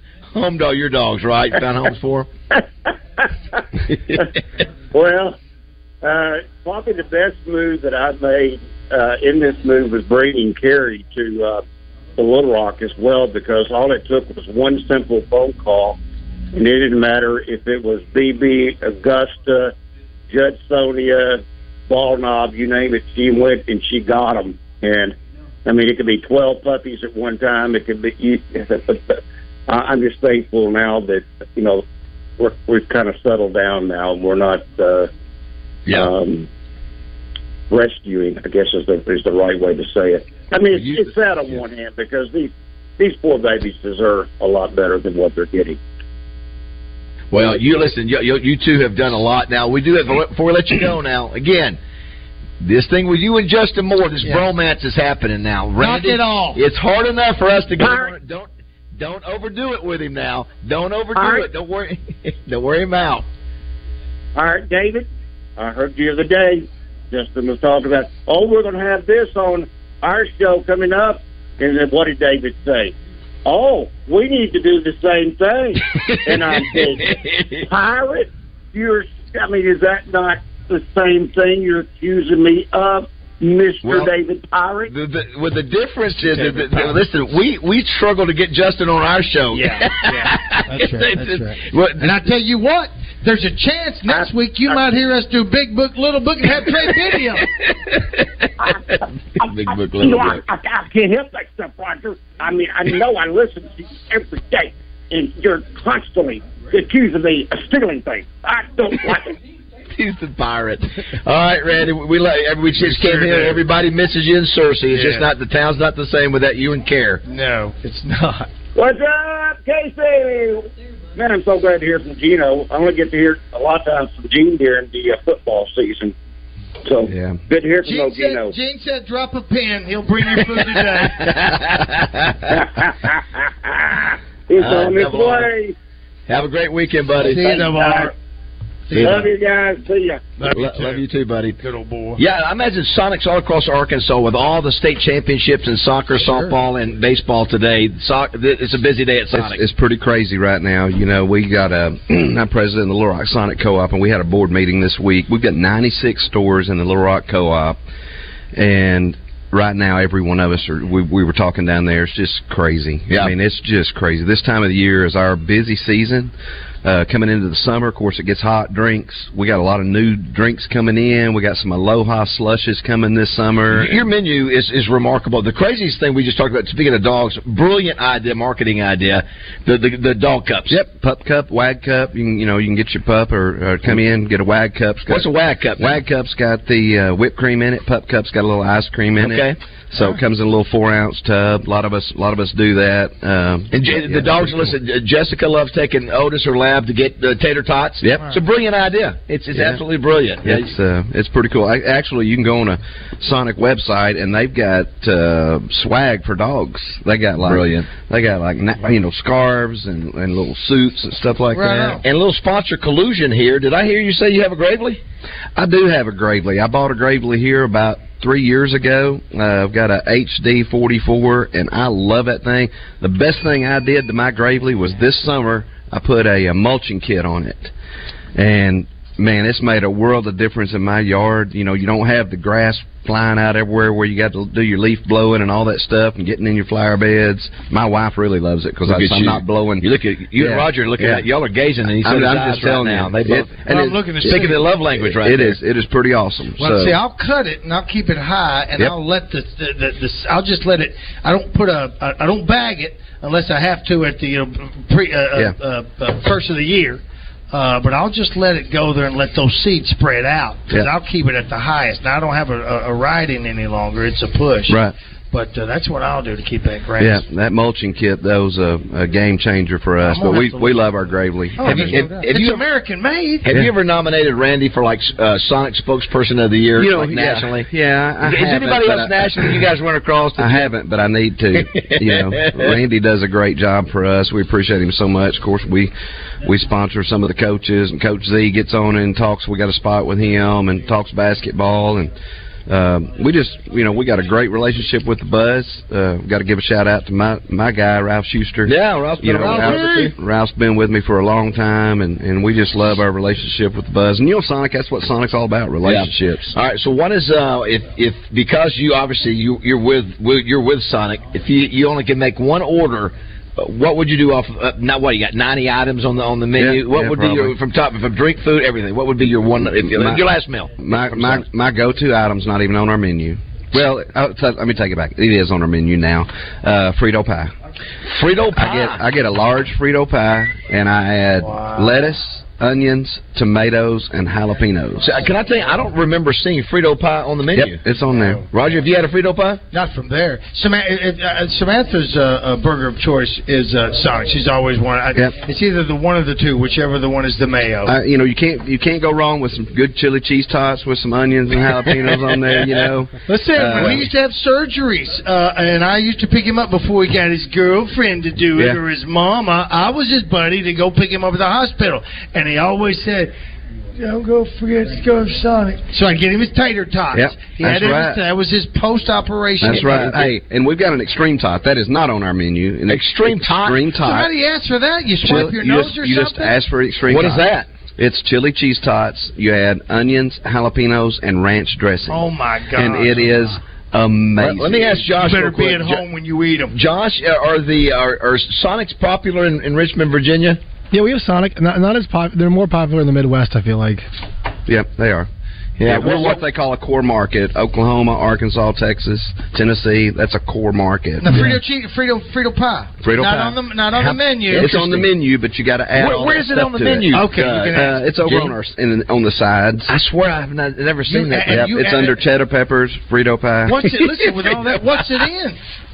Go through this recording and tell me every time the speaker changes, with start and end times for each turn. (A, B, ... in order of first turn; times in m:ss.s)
0:00.3-0:02.3 A
0:03.2-0:03.6 B
0:03.9-0:04.2 A
0:04.9-0:05.4 B
0:06.0-0:11.6 B
0:12.2-0:16.0 B
0:16.5-0:19.7 B
0:20.3-0:31.8 B
0:32.4-0:35.1 B
0:35.9-0:36.5 B
0:37.7-0:45.8 B
0:40.7-0:41.1 A
0:47.3-0:51.8 A
0:52.6-1:03.3 A
0:55.8-0:56.6 C
0:57.8-0:58.1 B
1:01.2-1:01.5 B
1:04.4-1:05.1 B
1:05.6-1:17.1 B
1:16.0-1:17.6 A
1:17.6-1:24.9 B
1:23.8-1:24.1 A
1:24.9-1:32.1 A
1:26.2-1:27.0 C
1:29.5-1:37.5 C
1:37.6-1:38.5 A
1:39.4-1:49.4 B
1:39.4-1:40.4 A
1:49.9-1:57.2 A
1:52.8-1:53.6 C
1:54.9-1:55.3 C
1:57.2-1:58.5 C
1:58.8-2:06.1 B
2:06.8-2:08.6 B
2:07.1-2:07.4 D
2:07.8-2:11.5 C
2:11.2-2:12.5 A
2:12.5-2:15.7 B
2:14.6-2:15.5 A
2:16.3-2:17.7 A
2:17.1-2:18.1 C
2:17.5-2:18.1 B
2:18.9-2:19.3 C
2:18.9-2:19.3 A
2:19.0-2:20.3 B
2:20.4-2:21.0 C
2:20.5-2:21.6 A
2:21.6-2:22.2 C
2:22.2-2:29.6 A
2:26.2-2:26.5 C
2:29.3-2:37.8 D
2:38.5-2:46.3 D
2:43.1-2:43.4 A
2:46.8-2:54.0 D
2:53.7-3:00.8 A
3:00.7-3:14.8 D
3:05.1-3:06.0 A
3:09.2-3:09.6 A
3:13.7-3:20.7 A
3:18.0-3:18.3 D
3:19.5-3:19.8 D
3:20.4-3:32.0 D
3:27.4-3:27.9 A
3:31.5-3:32.0 C
3:32.0-3:35.0 A
3:35.6-3:47.7 D
3:48.4-4:01.2 D
3:58.9-4:03.6 A
4:02.0-4:07.0 D
4:03.6-4:04.8 C
4:04.2-4:05.6 A
4:06.6-4:24.8 C
4:24.7-4:25.0 D
4:25.3-4:27.2 C
4:27.0-4:32.2 D
4:30.0-4:30.9 C
4:31.6-4:33.5 C
4:31.6-4:32.6 A
4:33.4-4:37.7 A
4:36.8-4:39.7 D
4:38.2-4:40.7 A
4:40.4-4:52.1 D
4:41.6-4:42.8 A
4:52.7-5:06.5 D
4:58.6-5:00.1 A
4:59.4-5:00.1 C
5:05.8-5:21.5 A
5:16.5-5:17.6 D
5:19.6-5:20.2 D
5:20.8-5:27.5 D
5:28.1-5:29.0 A
5:28.6-5:35.1 D
5:31.4-5:32.1 C
5:35.0-5:37.8 A
5:37.5-5:38.5 D
5:38.5-5:39.6 A
5:39.7-5:48.0 C
5:47.9-5:54.1 D
5:53.3-6:03.3 C
6:04.0-6:10.3 C
6:07.1-6:08.2 D
6:09.6-6:14.3 D
6:09.7-6:10.3 A
6:12.9-6:14.0 A
6:14.0-6:16.6 C
6:15.2-6:25.0 D
6:17.1-6:17.7 A
6:22.1-6:23.6 C
6:24.4-6:26.0 A
6:25.1-6:26.8 C
6:26.7-6:30.6 A
6:30.9-6:34.1 E
6:34.7-6:35.3 D
6:35.8-6:36.4 A
6:35.8-6:41.5 D
6:41.2-6:44.8 C
6:43.0-6:50.0 D
6:44.5-6:45.1 A
6:45.9-6:48.5 A
6:47.0-6:48.3 C
6:49.9-6:51.5 A
6:51.1-6:52.2 C
6:51.1-6:53.9 D
6:53.6-6:55.6 C